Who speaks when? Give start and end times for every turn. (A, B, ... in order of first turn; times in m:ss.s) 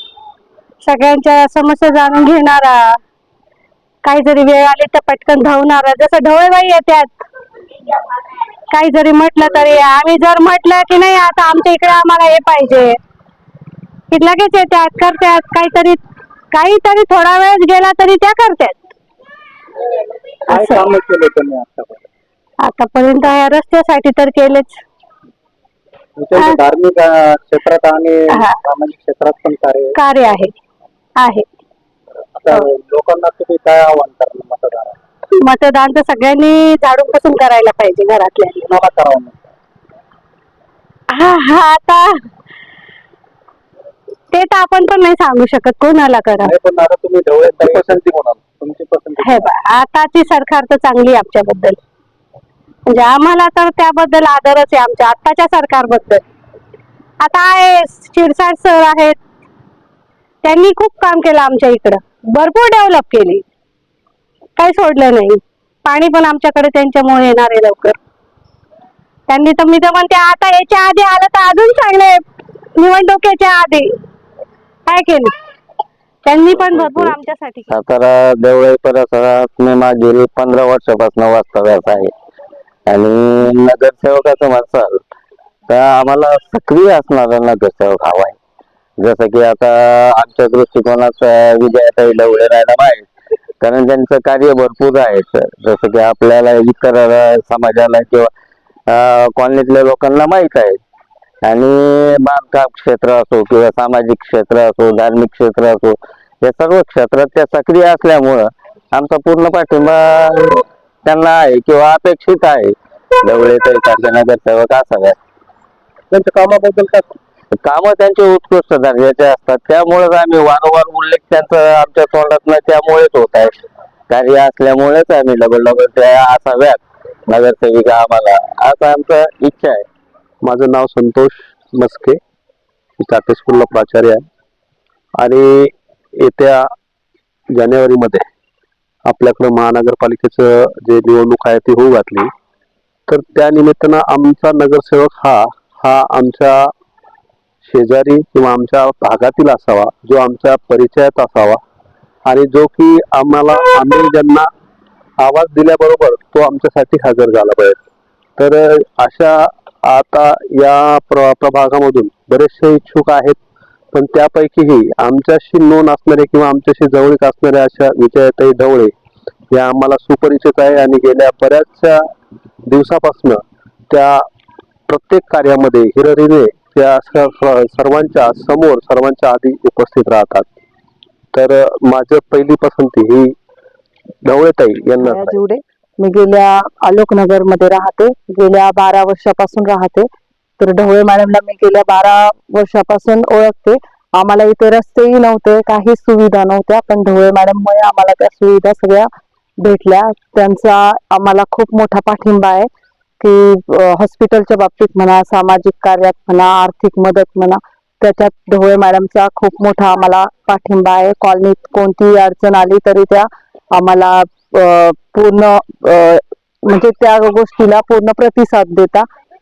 0:00.8-0:03.0 A
0:04.0-0:07.2 A
0:08.7-0:13.0 A
0:14.1-0:18.8 A
0:20.5-0:20.9 A
0:20.5-0:22.0 B
0:22.6-0:24.8 A
0:26.2-0:29.9 B
0:26.4-0:26.6 A
0:28.3-0:28.6 A
0:30.0-0:30.5 A
0:31.2-0:31.4 A
0:32.4-0:35.0 B
0:35.4-0:38.7 A
0:38.7-0:39.3 B
0:41.1-0:42.2 A
0:44.3-0:46.5 A
0:46.5-0:48.0 B
0:48.6-0:49.4 B
0:49.2-0:51.8 A
0:52.9-0:56.2 A
0:57.2-0:59.2 A
1:00.4-1:03.4 A
1:04.6-1:08.0 A
1:09.3-1:12.2 A
1:12.8-1:13.9 A
1:14.9-1:15.3 A
1:16.2-1:17.7 A
1:16.6-1:17.1 C
1:17.7-1:22.1 C
1:22.9-1:25.0 C
1:25.7-1:28.4 C
1:29.0-1:33.1 C
1:33.6-1:38.3 C
1:38.9-1:40.8 C
1:41.4-1:55.2 C
1:57.6-2:03.5 C
2:04.1-2:09.8 C
2:10.4-2:12.2 D
2:13.0-2:14.2 D
2:15.2-2:16.6 D
2:17.5-2:18.2 D
2:19.0-2:22.3 D
2:23.1-2:26.7 D
2:27.6-2:31.6 D
2:32.2-2:34.5 D
2:35.2-2:37.8 D
2:38.4-2:43.4 D
2:43.9-2:48.9 D
2:49.5-2:52.1 D
2:52.6-2:54.2 D
2:54.9-3:00.5 D
3:01.3-3:03.3 D
3:04.2-3:05.4 D
3:05.0-3:10.1 E
3:10.6-3:22.7 E
3:23.2-3:39.0 E